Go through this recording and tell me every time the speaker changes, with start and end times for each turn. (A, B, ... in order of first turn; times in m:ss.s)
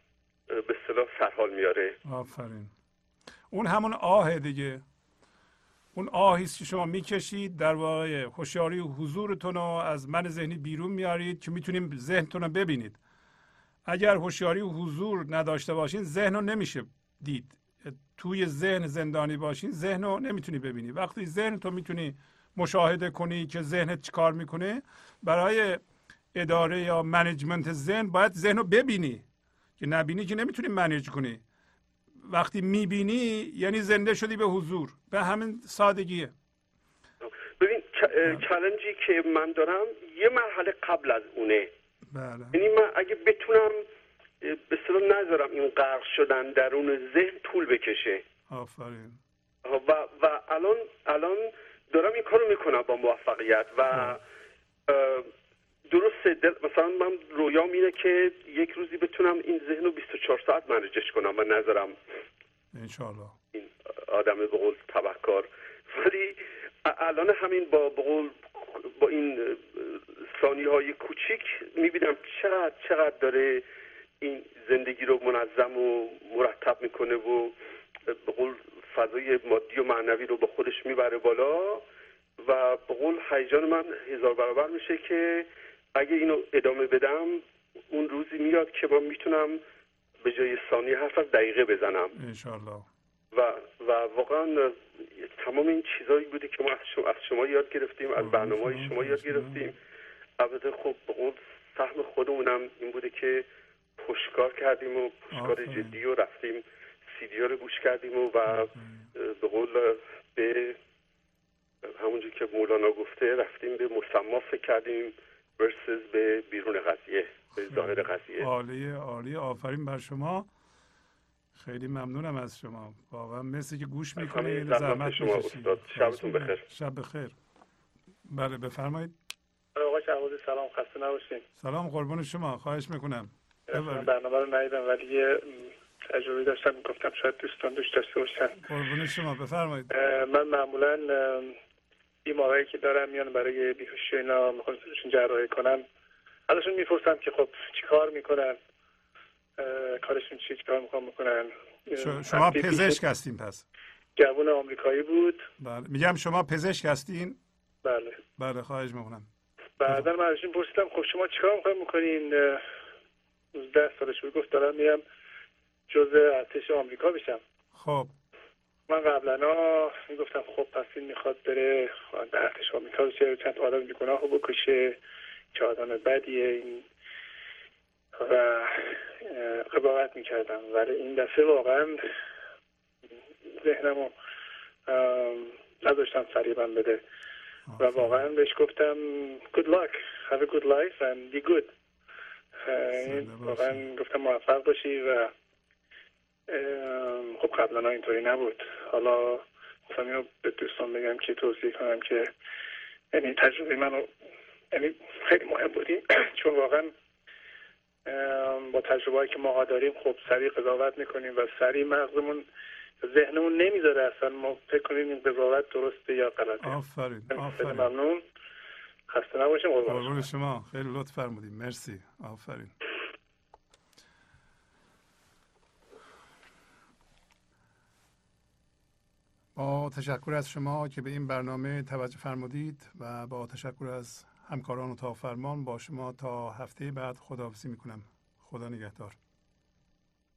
0:00.5-0:01.9 A
0:02.0-0:02.7 B
0:03.5-0:04.8 B
0:05.9-0:13.0 B
0:13.8-0:25.8 B
0:26.3-0:29.2 B
0:29.8-0:31.4 B
0:32.2-0:36.3 B
0:37.2-0:41.7 A
0:42.1-0:42.6 B
0:42.5-0:43.8 A
0:44.4-0:48.2 A
0:48.5-0:49.2 B
0:49.6-0:54.2 A
0:54.9-0:55.3 A
0:55.9-1:02.0 A
1:02.7-1:03.3 B
1:03.5-1:13.6 A
1:14.2-1:17.5 A
1:18.1-1:21.8 A
1:22.4-1:29.6 A
1:30.2-1:32.1 A
1:32.1-1:32.9 B
1:33.3-1:39.8 A
1:38.2-1:39.6 B
1:40.4-1:43.4 A
1:44.0-1:50.8 A
1:45.3-1:46.0 B
1:48.5-1:49.1 B
1:51.8-1:58.5 A
1:57.7-2:00.5 B
2:01.6-2:07.3 B
2:04.2-2:06.7 A
2:08.2-2:09.1 B
2:09.8-2:11.4 C
2:11.6-2:14.1 B
2:13.7-2:18.7 C
2:18.6-2:19.9 B
2:19.9-2:21.6 C
2:22.2-2:25.8 C
2:26.5-2:28.6 C
2:29.6-2:33.0 C
2:32.0-2:33.6 B
2:34.2-2:35.4 C
2:35.6-2:37.4 B
2:37.8-2:38.2 C
2:38.4-2:39.3 B
2:39.8-2:42.6 C
2:43.5-2:45.0 C
2:45.9-2:47.4 C
2:47.7-2:48.1 B
2:48.9-2:55.0 C
2:55.5-2:56.8 C
2:58.1-3:02.0 C
3:03.5-3:04.1 C
3:04.8-3:07.0 C
3:07.6-3:08.2 B
3:07.8-3:11.7 C
3:12.6-3:15.3 C
3:12.9-3:13.8 B
3:16.5-3:22.3 C
3:23.1-3:24.1 C
3:24.7-3:26.9 C
3:28.0-3:32.5 C
3:33.0-3:36.8 C
3:36.6-3:37.9 B
3:37.3-3:38.2 C
3:39.1-3:40.2 C
3:39.9-3:42.7 B
3:49.6-3:59.2 B